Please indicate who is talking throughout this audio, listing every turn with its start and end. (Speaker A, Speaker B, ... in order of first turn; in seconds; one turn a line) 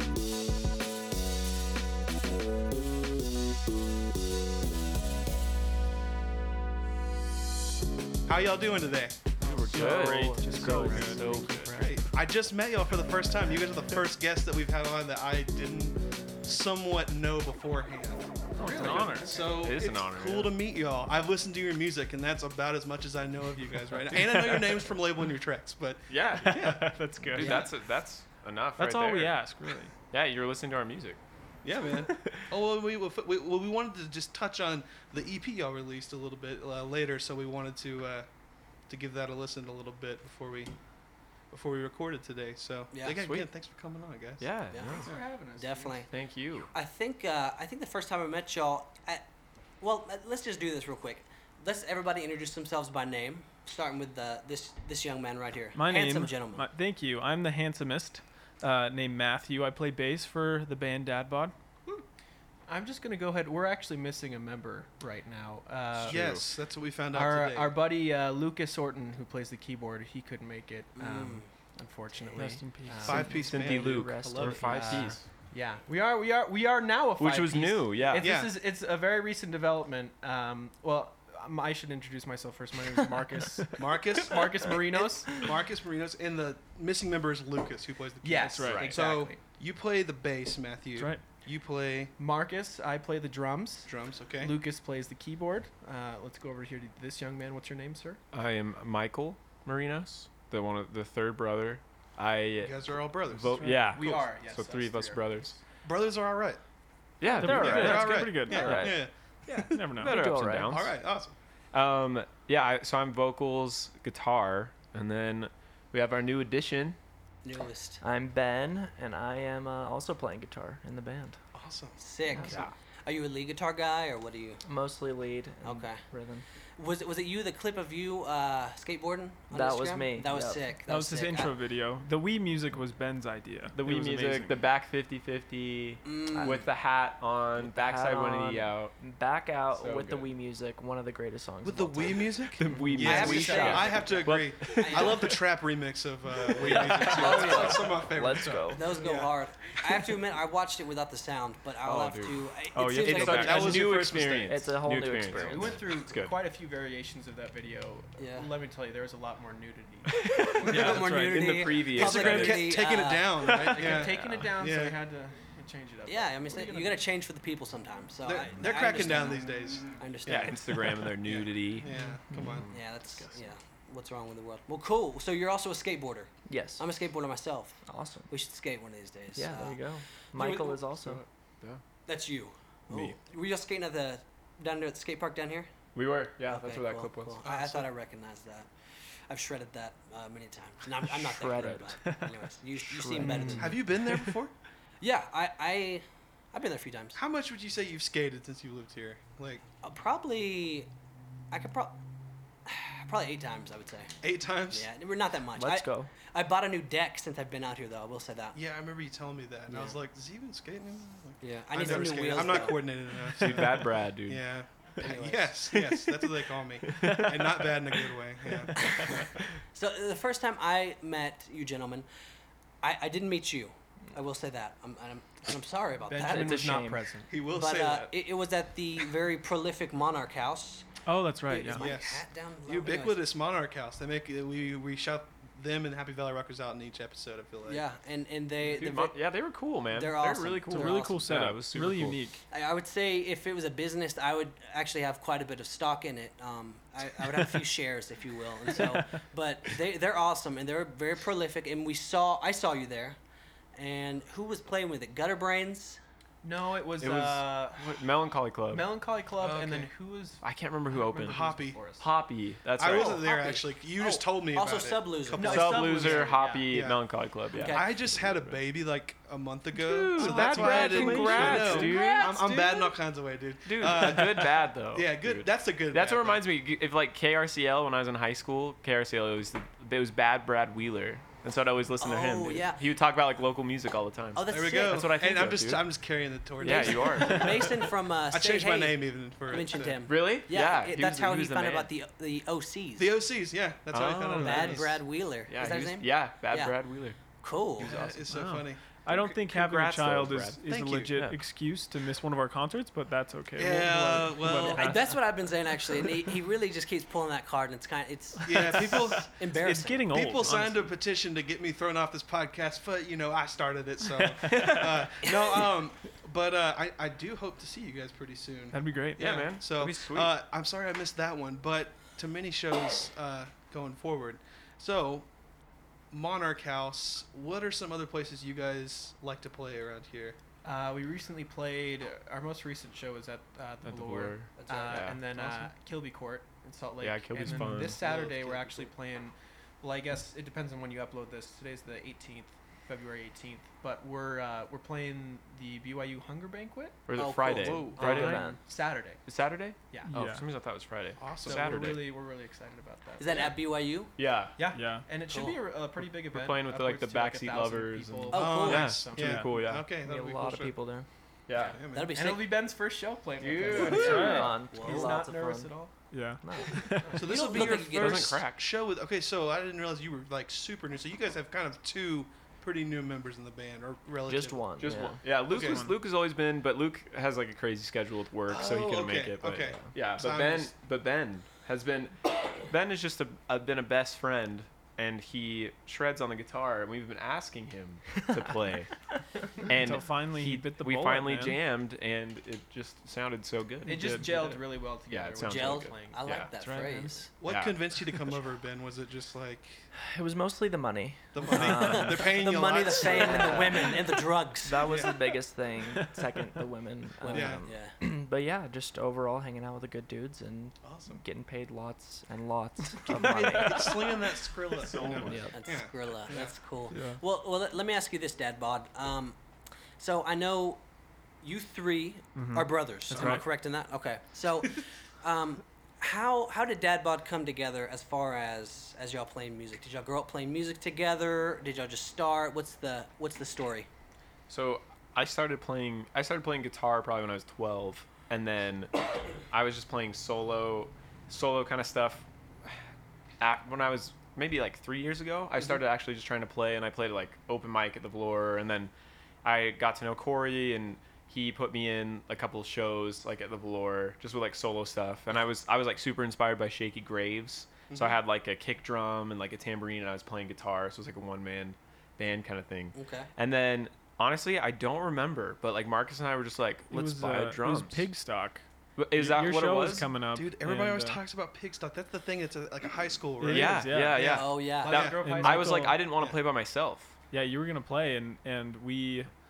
Speaker A: 8.3-9.8
Speaker B: 9.4-11.9
Speaker C: 9.7-11.6
Speaker D: 10.1-11.4
Speaker A: 11.7-27.7
Speaker C: 18.6-19.6
Speaker E: 18.6-19.1
Speaker B: 18.7-20.5
Speaker B: 24.1-24.8
Speaker B: 26.1-29.5
Speaker C: 26.5-27.7
Speaker C: 28.8-29.9
Speaker B: 30.1-31.2
Speaker A: 31.6-38.3
Speaker A: 38.9-40.7
Speaker A: 41.5-44.5
Speaker F: 42.9-43.2
Speaker B: 43.0-43.5
Speaker B: 44.4-45.1
Speaker F: 44.7-46.1
Speaker E: 45.0-46.0
Speaker B: 46.1-46.7
Speaker F: 46.7-49.2
Speaker F: 49.8-56.7
Speaker C: 55.7-61.5
Speaker E: 62.7-66.4
Speaker B: 66.0-66.4
Speaker A: 66.0-67.8
Speaker E: 67.1-73.3
Speaker F: 71.0-71.5
Speaker C: 72.3-73.4
Speaker A: 73.0-75.0
Speaker B: 73.1-75.2
Speaker D: 73.2-75.2
Speaker E: 74.6-85.5
Speaker B: 77.2-78.3
Speaker A: 78.2-78.6
Speaker A: 83.8-92.1
Speaker E: 88.2-89.4
Speaker C: 88.5-88.9
Speaker B: 88.6-89.0
Speaker E: 92.2-98.2
Speaker A: 93.9-94.6
Speaker B: 98.3-105.6
Speaker A: 102.6-103.7
Speaker C: 103.5-103.9
Speaker E: 103.9-105.4
Speaker A: 105.8-106.6
Speaker B: 107.2-108.9
Speaker C: 107.4-108.8
Speaker A: 107.4-109.9
Speaker D: 107.5-109.0
Speaker C: 109.6-110.2
Speaker B: 110.0-110.9
Speaker D: 110.0-110.8
Speaker A: 110.7-111.3
Speaker B: 111.7-117.0
Speaker F: 117.4-118.0
Speaker D: 118.0-121.4
Speaker A: 121.5-122.6
Speaker F: 122.0-124.6
Speaker D: 122.3-122.6
Speaker B: 122.4-122.7
Speaker D: 124.7-126.4
Speaker F: 125.6-126.0
Speaker F: 126.8-131.5
Speaker D: 129.5-130.7
Speaker C: 130.9-134.6
Speaker B: 133.7-138.9
Speaker F: 136.0-136.7
Speaker D: 136.4-136.7
Speaker D: 137.5-142.5
Speaker B: 139.7-140.3
Speaker A: 141.6-149.3
Speaker B: 142.5-145.4
Speaker F: 143.0-145.4
Speaker D: 143.0-143.4
Speaker E: 143.5-143.9
Speaker D: 146.5-148.8
Speaker B: 146.6-147.6
Speaker F: 147.3-147.6
Speaker F: 148.7-153.7
Speaker B: 151.8-156.4
Speaker C: 152.7-153.8
Speaker A: 153.0-154.6
Speaker D: 154.4-155.8
Speaker E: 155.3-160.4
Speaker F: 158.2-158.5
Speaker B: 160.3-162.7
Speaker A: 160.6-161.1
Speaker F: 160.6-163.5
Speaker C: 160.8-161.6
Speaker A: 161.9-165.0
Speaker E: 163.4-167.0
Speaker F: 166.1-170.6
Speaker A: 168.2-172.7
Speaker B: 170.2-172.8
Speaker D: 172.0-172.6
Speaker F: 172.7-179.8
Speaker D: 176.5-176.8
Speaker D: 177.8-178.3
Speaker D: 179.3-181.2
Speaker F: 180.3-180.8
Speaker B: 181.1-181.8
Speaker F: 182.1-185.7
Speaker B: 182.9-183.2
Speaker B: 185.9-187.4
Speaker F: 186.4-188.7
Speaker A: 187.4-187.9
Speaker F: 189.3-193.8
Speaker D: 191.2-191.9
Speaker D: 192.9-193.8
Speaker E: 193.2-193.7
Speaker A: 193.6-194.5
Speaker F: 195.0-197.2
Speaker A: 197.1-199.6
Speaker F: 199.8-200.9
Speaker F: 201.5-202.0
Speaker F: 202.6-204.1
Speaker A: 204.2-204.8
Speaker F: 204.7-208.6
Speaker D: 205.6-206.1
Speaker A: 208.5-218.9
Speaker F: 209.7-210.0
Speaker F: 211.4-212.9
Speaker B: 213.2-214.4
Speaker F: 215.0-215.5
Speaker B: 215.8-216.0
Speaker B: 216.8-217.5
Speaker F: 218.8-219.2
Speaker F: 219.7-222.1
Speaker F: 222.8-226.8
Speaker E: 226.1-227.3
Speaker D: 226.2-227.0
Speaker A: 227.3-228.1
Speaker F: 227.5-230.8
Speaker C: 231.1-231.9
Speaker F: 231.5-233.2
Speaker A: 231.7-237.8
Speaker F: 237.7-239.3
Speaker B: 238.6-242.2
Speaker F: 239.9-241.2
Speaker C: 240.7-242.4
Speaker F: 242.5-253.2
Speaker F: 253.7-256.0
Speaker E: 256.4-258.1
Speaker B: 257.0-258.9
Speaker E: 258.7-262.1
Speaker A: 259.4-259.9
Speaker B: 260.4-263.3
Speaker A: 261.2-261.8
Speaker A: 262.8-267.0
Speaker F: 262.9-265.8
Speaker E: 265.4-266.7
Speaker B: 265.4-268.6
Speaker F: 267.5-267.9
Speaker A: 267.6-276.4
Speaker B: 269.7-272.9
Speaker E: 270.2-272.3
Speaker B: 273.6-285.9
Speaker F: 282.0-282.8
Speaker F: 284.3-285.1
Speaker A: 284.5-287.6
Speaker B: 286.6-287.7
Speaker F: 286.6-293.1
Speaker A: 288.3-290.0
Speaker B: 290.0-291.9
Speaker A: 293.0-295.0
Speaker B: 293.9-297.2
Speaker F: 294.4-296.8
Speaker F: 297.3-297.9
Speaker A: 297.8-299.3
Speaker B: 297.8-298.4
Speaker C: 298.3-305.2
Speaker B: 299.1-301.4
Speaker A: 300.6-301.1
Speaker A: 303.6-304.9
Speaker F: 304.4-310.1
Speaker A: 308.4-309.3
Speaker C: 309.2-310.9
Speaker A: 310.1-325.3
Speaker C: 314.1-315.0
Speaker B: 314.5-315.1
Speaker F: 315.2-315.6
Speaker C: 318.7-319.4
Speaker B: 319.2-320.3
Speaker A: 326.1-330.4
Speaker E: 330.6-347.1
Speaker B: 333.8-335.7
Speaker F: 334.6-335.1
Speaker B: 337.0-338.0
Speaker C: 337.5-337.9
Speaker A: 337.9-338.9
Speaker B: 347.1-348.6
Speaker F: 347.1-347.9
Speaker E: 347.6-349.2
Speaker D: 348.0-348.6
Speaker B: 349.2-352.1
Speaker E: 349.9-350.1
Speaker C: 350.1-350.4
Speaker A: 351.2-351.7
Speaker E: 351.4-353.6
Speaker F: 353.2-354.1
Speaker B: 354.2-354.8
Speaker E: 354.6-359.5
Speaker C: 354.7-355.1
Speaker F: 355.3-355.6
Speaker B: 356.3-359.9
Speaker F: 358.3-358.9
Speaker A: 358.3-360.7
Speaker D: 360.0-361.1
Speaker B: 361.5-361.8
Speaker A: 361.6-362.1
Speaker F: 361.9-362.5
Speaker E: 362.1-365.9
Speaker B: 363.4-364.7
Speaker D: 363.7-365.8
Speaker C: 363.9-364.5
Speaker F: 364.7-365.1
Speaker C: 366.1-367.2
Speaker D: 366.4-366.8
Speaker E: 366.8-367.3
Speaker A: 367.1-374.8
Speaker F: 367.1-368.4
Speaker B: 367.4-368.6
Speaker D: 374.2-375.2
Speaker B: 374.8-388.9
Speaker A: 375.5-375.9
Speaker C: 375.5-376.0
Speaker A: 378.5-380.7
Speaker B: 389.6-396.5
Speaker C: 389.7-391.6
Speaker E: 393.8-396.4
Speaker C: 393.9-394.4
Speaker F: 395.4-397.3
Speaker C: 396.5-397.3
Speaker A: 397.4-399.9
Speaker B: 397.4-398.1
Speaker D: 400.1-404.1
Speaker A: 401.3-403.8
Speaker F: 401.4-404.9
Speaker D: 404.6-414.1
Speaker A: 404.8-405.2
Speaker C: 405.9-406.6
Speaker F: 407.2-407.9
Speaker A: 407.3-407.6
Speaker A: 410.8-411.2
Speaker A: 413.0-416.5
Speaker B: 414.8-415.5
Speaker D: 415.3-415.5
Speaker F: 415.5-419.4
Speaker C: 416.9-417.2
Speaker F: 420.0-420.8
Speaker F: 421.4-433.9
Speaker C: 422.3-423.4
Speaker B: 423.1-423.4
Speaker B: 434.5-439.0
Speaker B: 439.5-442.7
Speaker B: 443.4-448.9
Speaker B: 449.4-468.1
Speaker A: 457.9-458.1
Speaker F: 462.9-463.3
Speaker C: 466.9-468.6
Speaker B: 468.9-470.1
Speaker C: 469.1-471.2
Speaker A: 469.8-475.3
Speaker C: 473.4-476.0
Speaker B: 473.4-477.1
Speaker F: 474.3-474.9
Speaker E: 474.8-476.0
Speaker C: 477.3-479.3